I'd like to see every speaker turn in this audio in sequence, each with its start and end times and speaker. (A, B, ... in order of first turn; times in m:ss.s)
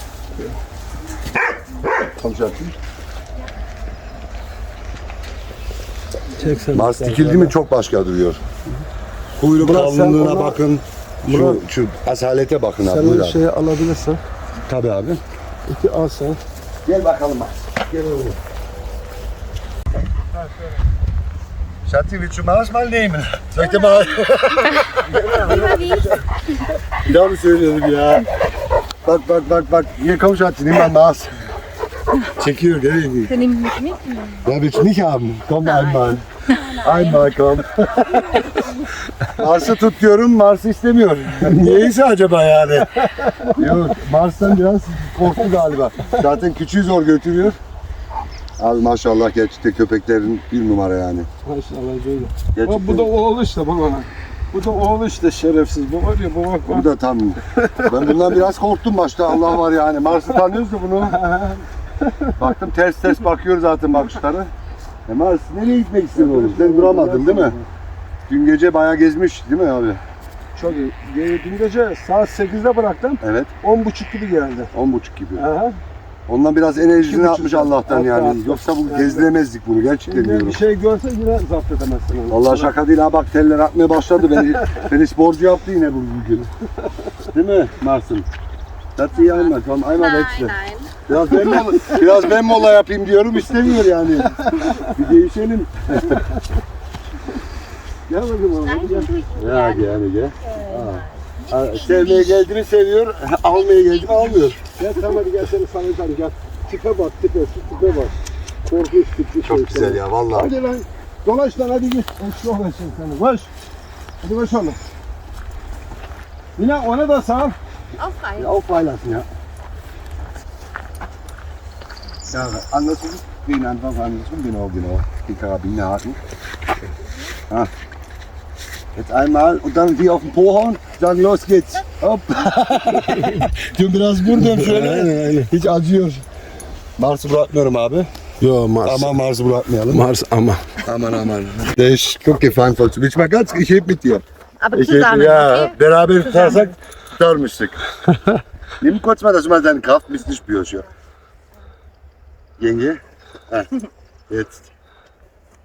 0:02.0-0:02.7 A
0:06.3-0:07.5 B
0:06.7-0:08.4 A
0:09.4-0:13.4 A
0:09.6-0:10.6 B
0:11.2-0:11.6 B
0:12.8-0:14.2 B
0:14.6-0:15.2 A
0:15.7-0:16.4 B
0:16.9-0:18.4 A
0:21.8-0:26.2 A
0:24.7-0:26.2 C
0:25.4-0:26.2 B
0:27.0-0:28.3 A
0:29.0-0:31.3 A
0:32.3-0:33.4 A
0:33.3-0:34.5 C
0:34.4-0:38.5 A
0:35.6-0:37.3 C
0:38.0-0:38.9 C
0:39.4-0:43.0 A
0:43.0-0:43.8 B
0:43.5-0:47.6 A
0:48.6-0:51.3 A
0:51.4-0:56.9 B
0:52.5-0:53.1 A
0:56.7-1:01.2 A
0:57.5-0:58.4 B
1:01.0-1:02.4 B
1:02.4-1:04.5 A
1:05.1-1:07.6 A
1:06.1-1:07.7 B
1:08.3-1:10.0 A
1:10.6-1:14.7 B
1:13.2-1:13.5 A
1:14.7-1:15.5 A
1:15.4-1:15.8 B
1:16.3-1:20.6 A
1:16.9-1:19.3 B
1:20.1-1:22.7 B
1:22.3-1:26.5 A
1:24.4-1:24.8 B
1:27.3-1:28.3 A
1:29.0-1:36.2 A
1:29.1-1:31.1 C
1:31.5-1:32.0 B
1:34.3-1:34.9 B
1:38.1-1:39.1 B
1:38.6-1:42.4 C
1:39.3-1:44.6 A
1:44.8-1:53.5 B
1:49.4-1:50.5 A
1:54.2-1:54.8 B
1:56.6-1:57.6 B
1:58.0-1:58.5 C
1:58.4-1:59.3 A
2:02.3-2:06.2 A
2:09.0-2:16.2 A
2:13.0-2:13.4 B
2:14.3-2:15.5 B
2:17.0-2:18.1 A
2:18.4-2:19.2 B
2:18.8-2:20.1 A
2:19.9-2:20.8 B
2:20.8-2:27.8 A
2:24.6-2:26.7 C
2:28.8-2:30.9 A
2:32.6-2:33.7 A
2:34.3-2:34.7 A